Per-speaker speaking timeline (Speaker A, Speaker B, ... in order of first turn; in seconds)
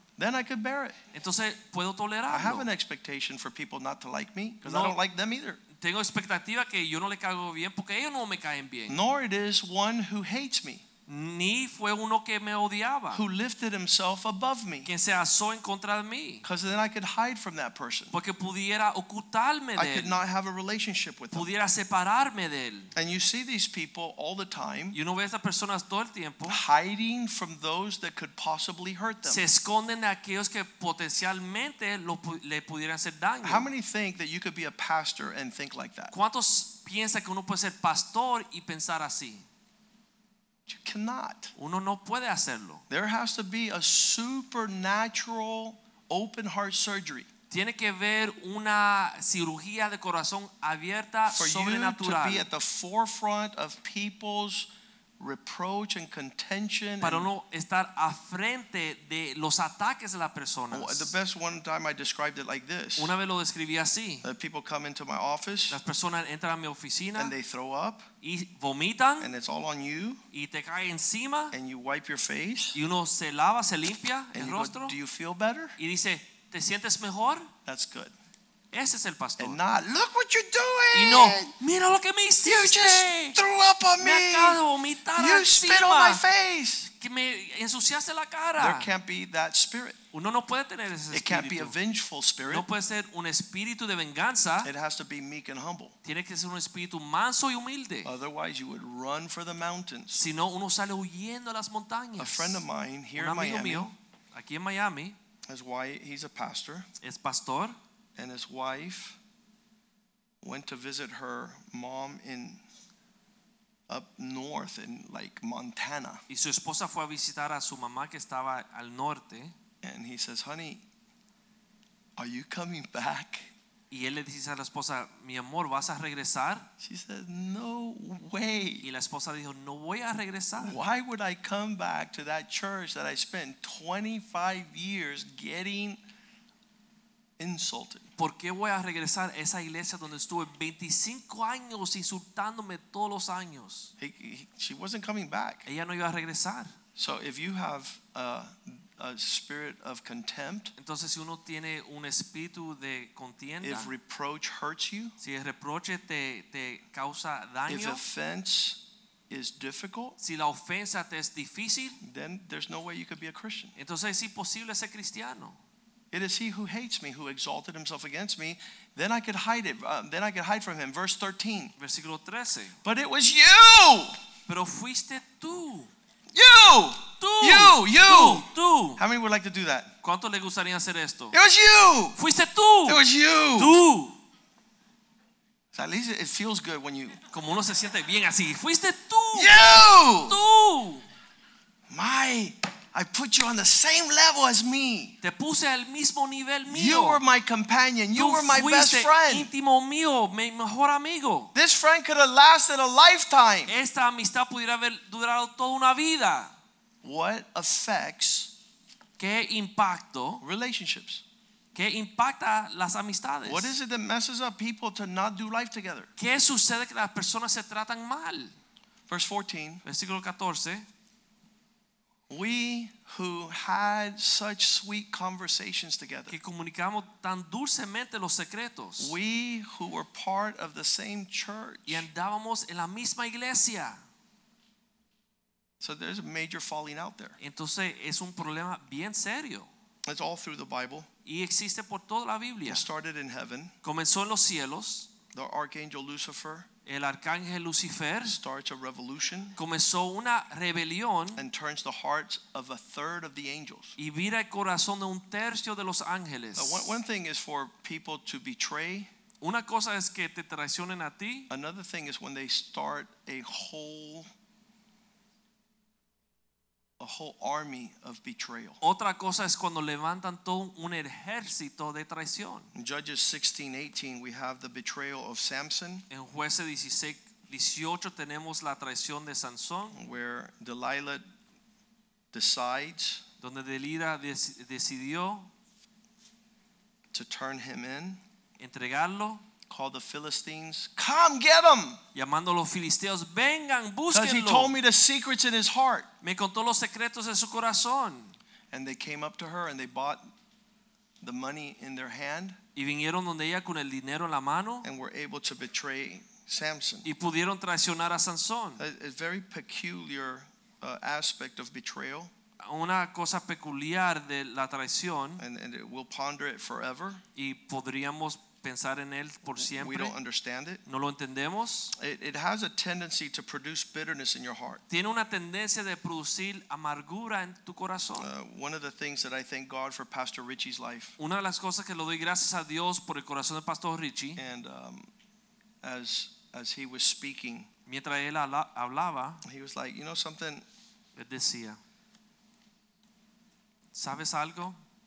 Speaker A: 0.2-1.0, 2.3-5.6, 8.9-10.8, 13.1-14.9, 16.4-18.1, 19.8-21.5, 22.9-25.0, 26.4-29.4, 33.4-36.1, 40.7-41.5, 42.9-47.3, 51.3-57.3, 60.7-63.1, 64.2-65.8, 67.2-68.1, 69.2-70.2, 71.5-72.8, 74.3-75.8, 77.7-78.1, 79.4-81.5, 82.4-84.6, 85.1-86.9, 88.6-90.0, 91.1-92.7, 94.6-95.9, 98.0-100.2, 102.2-103.9, 105.5-106.9, 108.2-109.2, 110.4-112.6, 113.9-116.2, 119.8-120.8, 122.2-123.5, 126.8-128.9, 130.6-136.0, 137.4-138.1, 144.0-145.6, 146.9-150.7, 153.6-155.2, 157.7-160.2, 162.0-163.7, 166.1-171.7, 172.8-174.2, 176.3-179.9, 181.3-182.2, 182.8-183.8, 185.7-187.2, 189.3-190.4, 191.9-195.2, 196.7-199.5, 201.5-203.7, 207.0-208.5, 210.4-211.2, 213.4-216.1, 219.1-219.8, 222.3-226.3, 229.0-232.1, 235.8-237.4, 240.0-241.1, 242.7-243.7, 245.3-246.7, 248.2-249.6, 251.3-254.0, 256.5-259.1, 261.5-264.3, 267.0-268.8, 272.7-276.0, 279.9-281.2, 282.3-283.2, 287.1-288.2, 289.7-292.0, 294.1-296.1, 298.7-300.3, 301.2-302.6, 304.8-307.1, 308.8-312.3, 315.4-317.2, 319.6-320.8, 321.9-324.8, 328.2-331.1, 334.4-335.1, 335.8-337.7, 339.4-340.6
Speaker B: 1.1-2.7, 4.6-5.0, 5.7-9.0, 11.1-13.2, 14.8-16.4, 18.1-20.2, 21.3-22.9, 24.9-26.6, 29.2-33.7, 36.1-39.4, 41.5-42.8, 47.5-52.5, 57.0-61.1, 63.0-64.3, 65.7-67.3, 68.2-69.3, 70.3-71.5, 72.7-74.9, 75.8-77.5, 78.7-79.6, 80.9-83.4, 84.0-86.2, 86.9-88.9, 90.1-91.8, 92.4-94.7, 96.0-98.1, 100.1-102.7, 103.2-105.2, 107.0-107.8, 116.3-119.5, 123.9-126.7, 128.8-130.8, 138.2-143.9, 145.7-146.7, 150.8-153.9, 155.2-158.0, 160.2-162.0, 163.8-165.6, 171.8-172.8, 174.5-175.9, 177.2-179.0, 180.0-181.4, 182.2-183.0, 183.6-184.2, 187.3-191.0, 195.2-197.2, 198.1-201.5, 203.7-206.5, 209.2-210.4, 211.7-213.7, 216.2-218.5, 219.8-220.9, 226.3-229.2, 231.9-234.0, 237.4-239.7, 241.2-242.9, 243.8-245.1, 246.8-248.4, 249.6-251.4, 254.0-257.0, 259.4-261.5, 268.8-272.7, 276.1-280.0, 283.4-285.5, 288.6-289.4, 292.1-294.8, 296.2-298.3, 302.8-304.9, 307.0-308.8, 312.6-315.4, 317.3-320.1, 320.9-321.9, 324.9-328.3, 331.2-334.4, 337.9-339.4, 341.1-341.8, 343.9-344.8